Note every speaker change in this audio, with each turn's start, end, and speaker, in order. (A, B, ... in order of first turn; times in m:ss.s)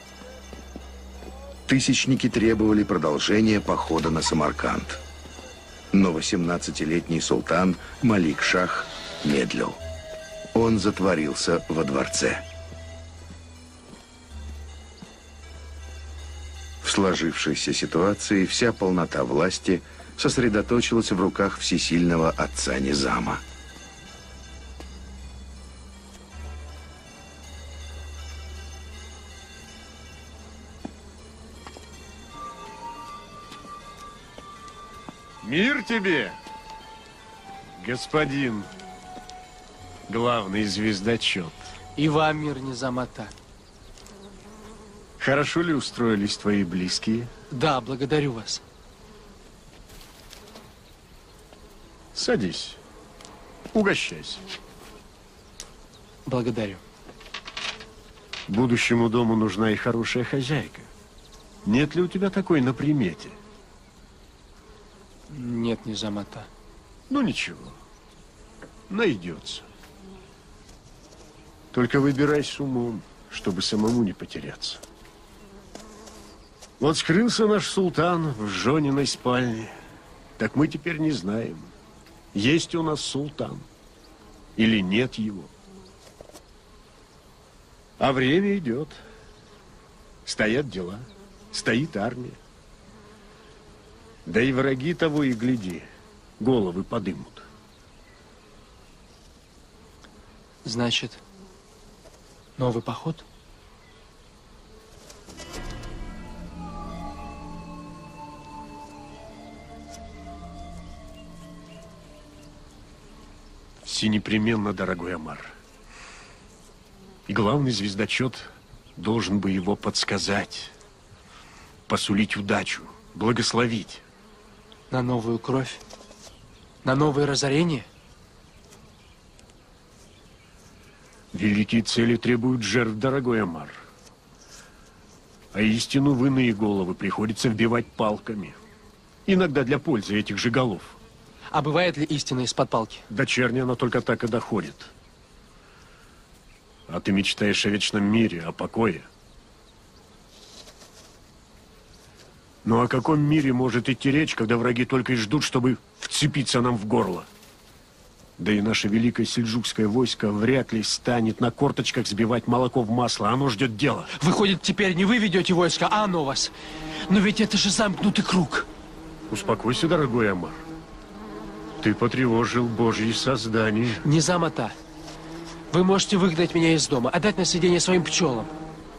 0:01.7-0:05.0 A
0:05.9-0:09.8 A
0:10.5-0:12.4 A
0:16.8-0:23.4 A
0:35.4-0:36.4 B
0:37.8-0:38.7 B
0:40.1-0:41.6 B
0:42.0-0:43.3 C
0:45.2-0:47.3 B
0:47.5-0:48.6 C
0:52.1-0:52.8 B
0:53.7-0:54.4 B
0:56.2-0:56.8 C
0:58.5-1:00.9 B
1:01.6-1:03.4 B
1:05.3-1:06.5 C
1:07.1-1:07.8 B
1:08.9-1:09.6 B
1:11.7-1:14.8 B
1:16.8-1:19.7 B
1:20.4-1:21.7 B
1:22.3-1:23.6 B
1:24.6-1:25.5 B
1:28.0-1:29.0 B
1:30.2-1:32.4 B
1:34.2-1:35.9 B
1:36.4-1:37.5 B
1:40.6-1:41.2 C
1:42.6-1:43.2 C
1:53.8-1:55.5 B
1:57.3-2:00.7 B
2:01.9-2:04.0 B
2:04.9-2:05.8 C
2:06.8-2:07.9 C
2:11.3-2:13.8 B
2:15.5-2:18.6 B
2:19.2-2:21.0 B
2:21.5-2:23.0 C
2:23.1-2:24.9 B
2:26.9-2:29.1 B
2:32.6-2:37.3 B
2:38.4-2:44.1 B
2:44.2-2:46.5 C
2:47.1-2:48.7 C
2:49.3-2:50.6 B
2:51.8-2:54.0 B
2:54.0-2:54.8 C
2:55.7-2:58.5 C